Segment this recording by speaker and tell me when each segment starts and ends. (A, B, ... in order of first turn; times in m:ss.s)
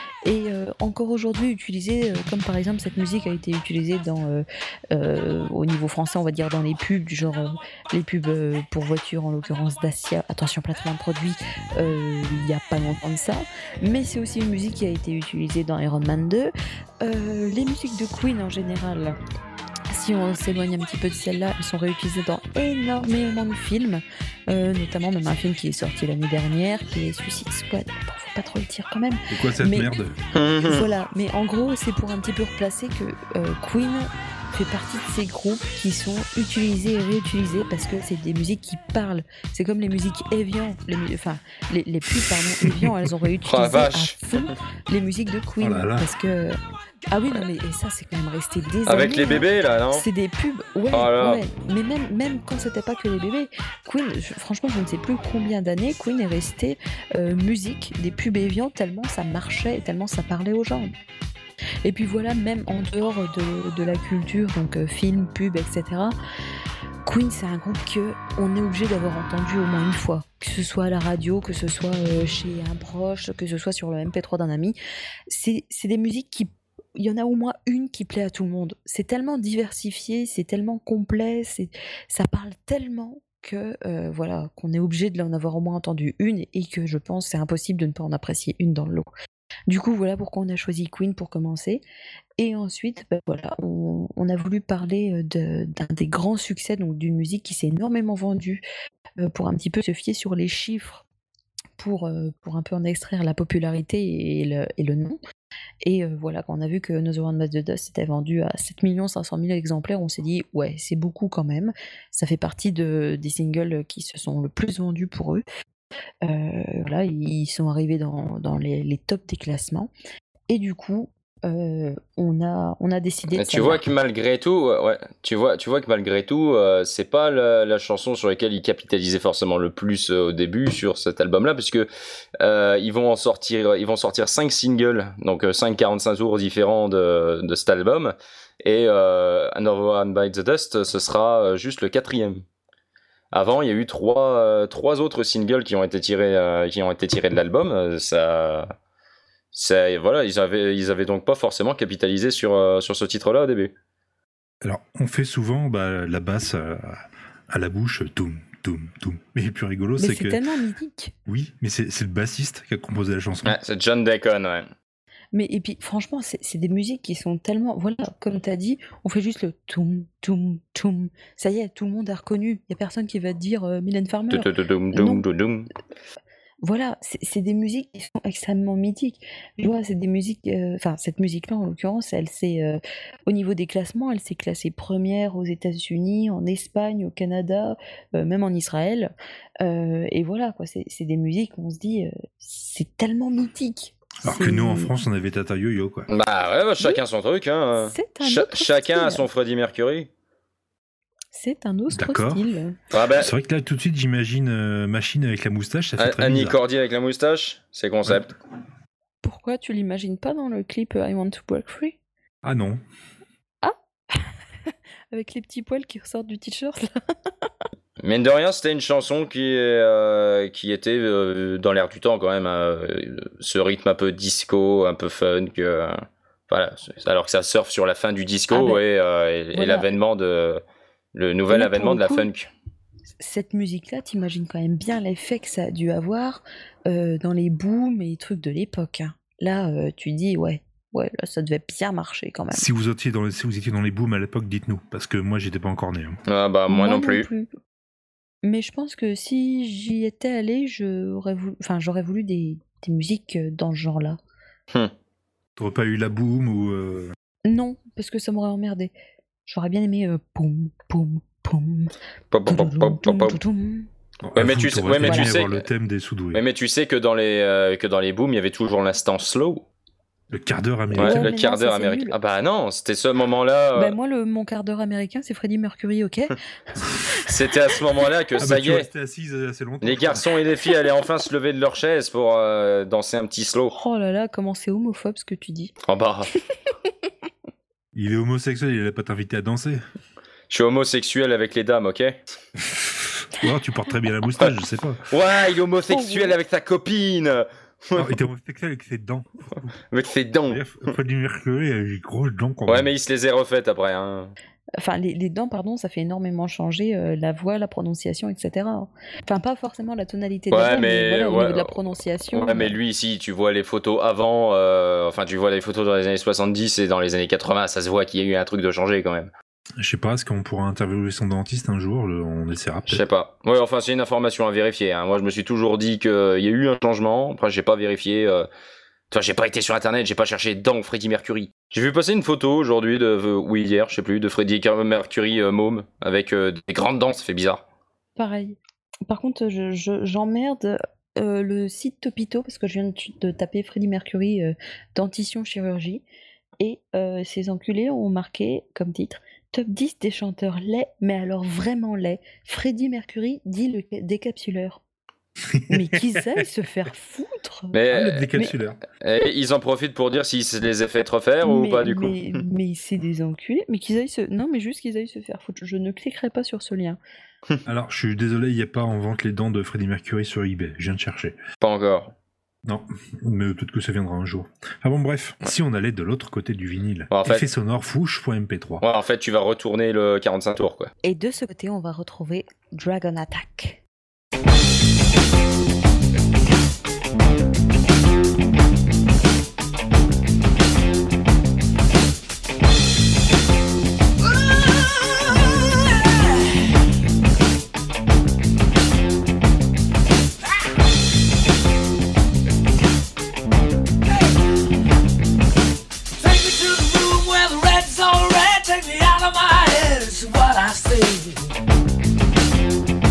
0:00.2-0:19.2 A
0:19.9-0:29.9 A
0:29.3-0:30.2 B
0:30.3-0:30.9 C
0:30.6-0:46.6 A
0:43.4-0:44.5 C
0:45.6-0:46.1 B
0:47.1-1:00.9 A
0:48.9-0:50.1 C
0:50.9-0:51.4 C
1:01.8-1:06.2 A
1:07.0-1:14.8 A
1:15.3-1:29.1 A
1:29.7-1:31.8 A
1:32.4-1:38.6 A
1:39.2-1:41.0 A
1:41.8-1:45.2 A
1:45.8-1:55.4 A
1:56.2-1:59.9 A
2:00.5-2:03.8 A
2:03.4-2:11.9 C
2:12.4-2:22.4 C
2:23.3-2:28.7 C
2:29.5-2:33.7 C
2:34.6-2:40.4 B
2:40.0-2:41.1 A
2:41.3-2:43.6 B
2:43.4-2:44.7 C
2:45.3-2:55.2 A
2:54.3-2:55.7 C
2:56.6-3:14.9 A
3:14.2-3:16.1 B
3:16.1-3:20.1 C
3:17.8-3:19.3 A
3:21.3-3:22.8 A
3:21.9-3:22.5 B
3:22.9-3:23.3 C
3:23.1-3:26.6 B
3:26.0-3:28.3 C
3:29.2-3:32.0 A
3:32.4-3:32.8 B
3:33.6-3:37.5 A
3:38.0-3:45.9 C
3:46.5-3:50.6 C
3:48.5-3:48.8 A
3:49.5-3:49.9 A
3:51.2-3:52.5 C
3:51.5-3:52.3 A
3:53.2-4:02.7 A
4:02.5-4:06.2 B
4:06.3-4:07.3 C
4:06.7-4:07.5 A
4:08.4-4:14.2 A
4:15.6-4:17.2 B
4:17.4-4:18.9 A
4:19.5-4:21.9 A
4:22.3-4:23.4 C
4:22.5-4:23.9 A
4:24.2-4:26.4 B
4:24.4-4:25.6 C
4:25.0-4:25.3 A
4:26.3-4:29.6 C
4:30.3-4:31.3 B
4:31.0-4:34.0 C
4:31.0-4:32.2 A
4:33.8-4:36.4 A
4:37.2-4:38.9 C
4:38.4-4:40.3 B
4:39.8-4:43.8 C
4:43.7-4:45.7 A
4:45.8-4:46.3 C
4:47.9-4:49.8 B
4:50.5-4:52.2 C
4:52.6-4:55.1 B
4:55.1-4:58.2 C
4:55.9-4:56.4 A
4:58.0-4:59.8 B
4:59.9-5:00.9 C
5:00.5-5:02.9 B
5:02.7-5:04.3 C
5:04.8-5:12.8 A
5:10.5-5:11.8 C
5:12.3-5:19.3 C
5:19.8-5:23.0 B
5:22.9-5:28.5 C
5:29.1-5:37.6 C
5:38.2-5:46.0 A
5:46.6-5:54.8 A
5:55.5-5:56.0 B
5:55.7-5:57.8 A
5:57.7-5:58.3 C
5:57.9-5:58.8 B
5:59.0-6:02.4 C
6:01.4-6:07.0 A
6:07.7-6:11.4 B
6:11.6-6:12.1 C
6:12.6-6:18.8 B
6:17.1-6:17.5 C
6:18.8-6:20.9 C
6:21.0-6:23.8 A
6:44.1-6:44.5 D
6:46.2-6:51.6 D